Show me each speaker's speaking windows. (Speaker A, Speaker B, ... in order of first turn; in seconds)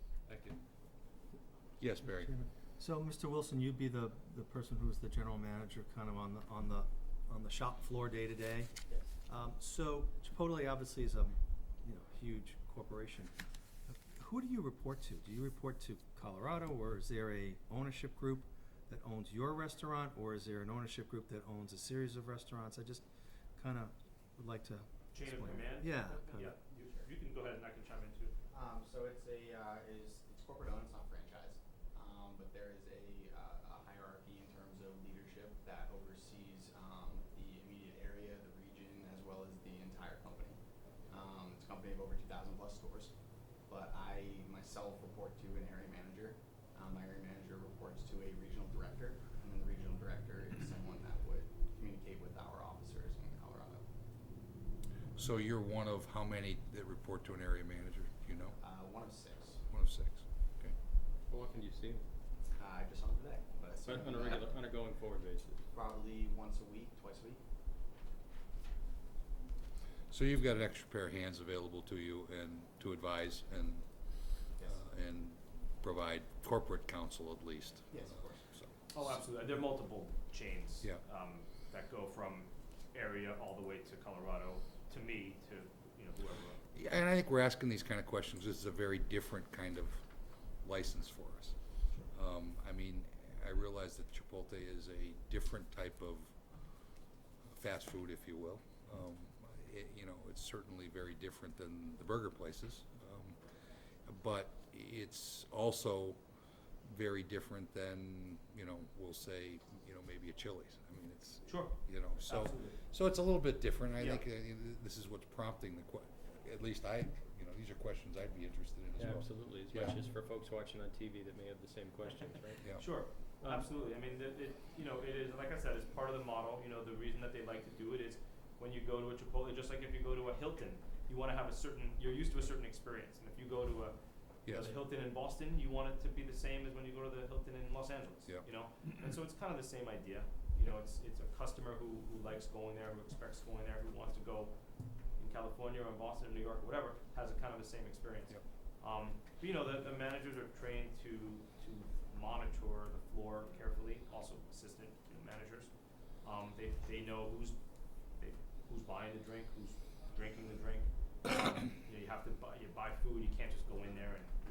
Speaker A: 0.3-0.6, 61.3-62.0, 63.8-65.6, 119.0-122.6, 123.4-123.7
Speaker B: 1.8-2.3, 55.1-58.6, 59.7-60.7, 70.1-79.2, 86.7-90.0, 90.6-91.5, 92.1-96.4, 97.5-103.4, 104.0-106.2, 106.8-120.0, 122.6-122.9, 134.4-134.8
Speaker C: 2.0-8.7, 9.2-13.3, 13.9-26.6
Speaker D: 25.1-28.3, 78.9-86.6, 111.5-112.8, 114.0-114.2, 122.7-134.0, 134.5-144.6, 145.2-155.7, 156.2-157.6, 158.2-164.3
Speaker E: 28.5-43.1, 43.6-53.8, 58.6-59.6, 62.5-64.5, 65.7-67.4, 77.9-78.4